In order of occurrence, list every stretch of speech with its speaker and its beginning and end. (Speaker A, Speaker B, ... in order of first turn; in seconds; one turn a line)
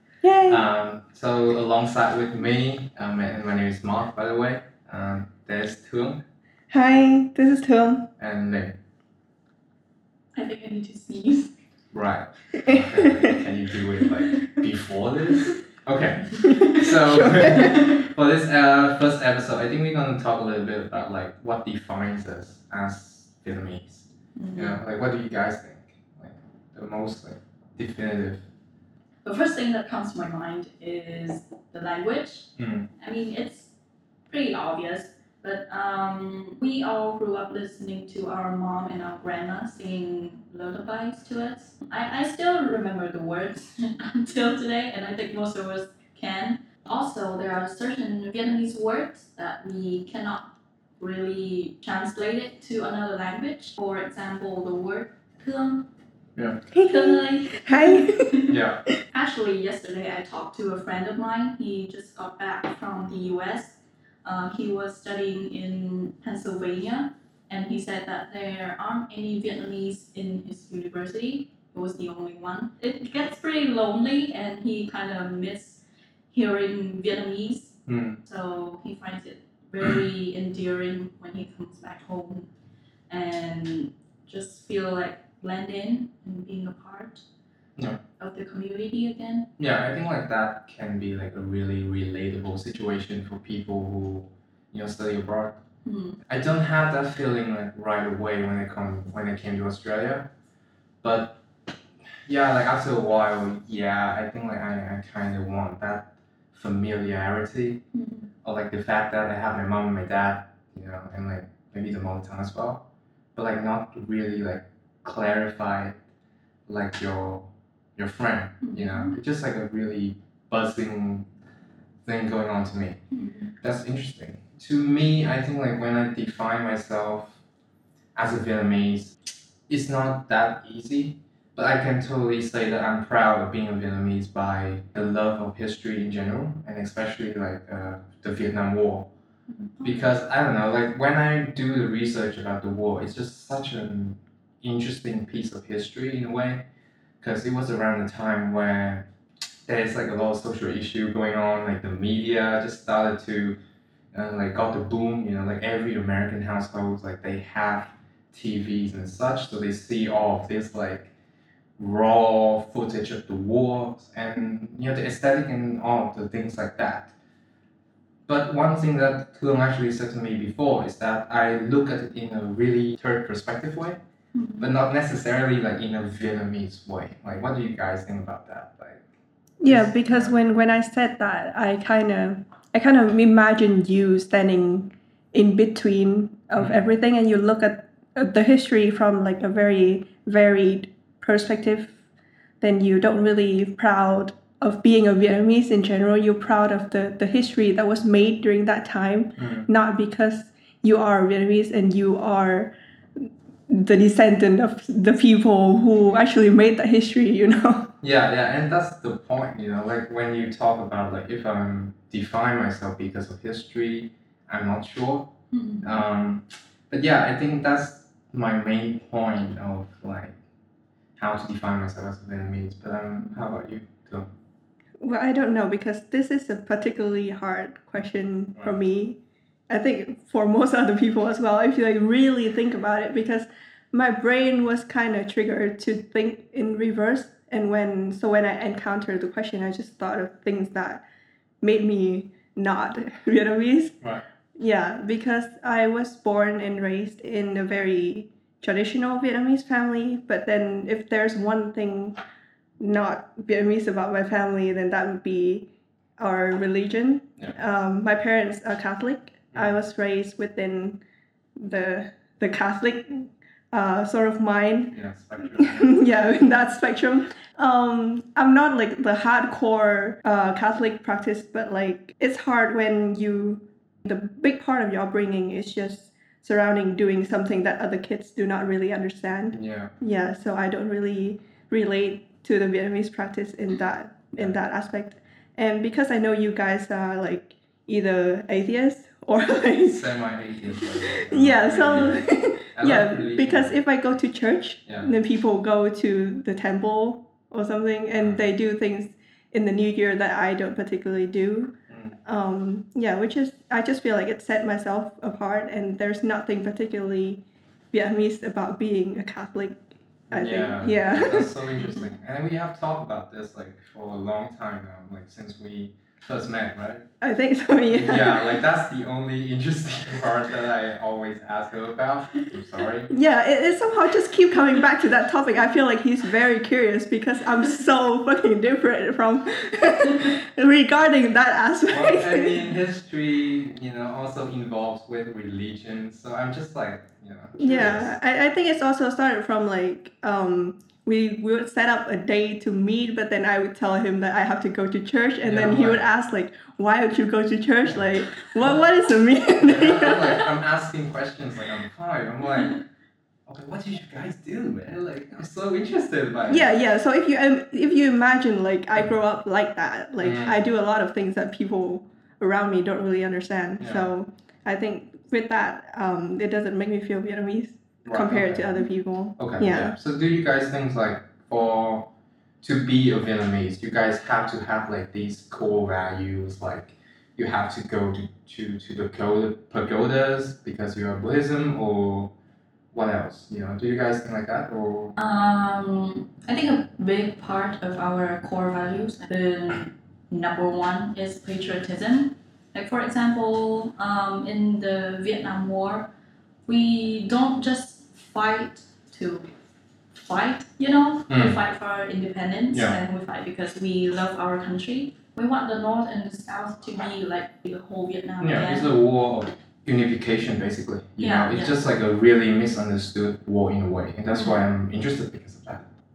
Speaker A: 0.2-0.7
Speaker B: 0.5-6.2
Speaker A: 6.7-8.1
Speaker B: 8.2-8.8
Speaker C: 10.3-11.5
Speaker B: 11.9-28.4
Speaker A: 12.5-13.4
Speaker C: 14.2-14.6
Speaker C: 16.4-16.9
Speaker A: 16.4-17.9
Speaker C: 17.4-17.9
Speaker C: 24.4-24.8
Speaker C: 29.2-32.5
Speaker B: 32.6-32.9
Speaker C: 33.0-33.7
Speaker C: 34.3-55.9
Speaker A: 56.7-58.5
Speaker C: 56.8-82.5
Speaker B: 58.5-58.8
Speaker B: 77.9-78.2
Speaker C: 83.1-87.2
Speaker C: 88.2-89.5
Speaker B: 89.6-95.6
Speaker C: 95.8-96.2
Speaker B: 96.3-100.3
Speaker B: 101.0-101.4
Speaker B: 102.2-107.8
Speaker C: 107.9-108.3
Speaker B: 108.4-112.8
Speaker B: 113.3-116.0
Speaker B: 116.7-121.3
Speaker C: 118.6-119.1
Speaker B: 122.0-123.0
Speaker C: 123.1-123.5
Speaker B: 123.6-127.4
Speaker B: 128.2-129.2
Speaker B: 129.7-139.1
Speaker C: 139.5-140.1
Speaker B: 139.8-146.6
Speaker B: 147.2-149.1
Speaker B: 149.7-153.6
Speaker B: 154.1-161.1
Speaker B: 161.8-167.1
Speaker B: 168.3-174.0
Speaker C: 174.3-174.7
Speaker B: 174.6-179.1
Speaker A: 179.6-191.9
Speaker B: 179.7-180.3
Speaker B: 186.6-186.8
Speaker A: 192.6-202.7
Speaker B: 199.4-199.7
Speaker A: 203.2-207.9
Speaker B: 208.0-215.3
Speaker C: 215.5-216.0
Speaker B: 215.8-220.4
Speaker B: 221.2-224.3
Speaker A: 225.0-241.0
Speaker A: 241.6-243.9
Speaker A: 244.6-252.2
Speaker A: 252.8-261.0
Speaker A: 261.6-265.0
Speaker B: 264.9-266.0
Speaker A: 265.5-290.0
Speaker B: 279.5-279.9
Speaker B: 289.8-292.2
Speaker A: 291.1-301.7
Speaker B: 292.7-293.8
Speaker B: 301.9-302.2
Speaker A: 302.2-311.5
Speaker B: 310.3-317.1
Speaker A: 317.2-318.6
Speaker B: 317.9-323.1
Speaker A: 323.1-332.7
Speaker B: 331.9-338.1
Speaker A: 337.6-350.5
Speaker B: 345.4-346.0
Speaker B: 349.6-352.8
Speaker B: 353.5-356.7
Speaker A: 356.5-369.9
Speaker B: 360.2-360.6
Speaker B: 363.8-364.1
Speaker B: 368.0-368.7
Speaker B: 369.4-382.3
Speaker B: 382.9-385.1
Speaker C: 385.2-396.1
Speaker C: 396.7-399.5
Speaker C: 400.2-408.9
Speaker B: 401.3-401.6
Speaker B: 408.4-415.9
Speaker C: 411.2-411.8
Speaker C: 414.3-414.6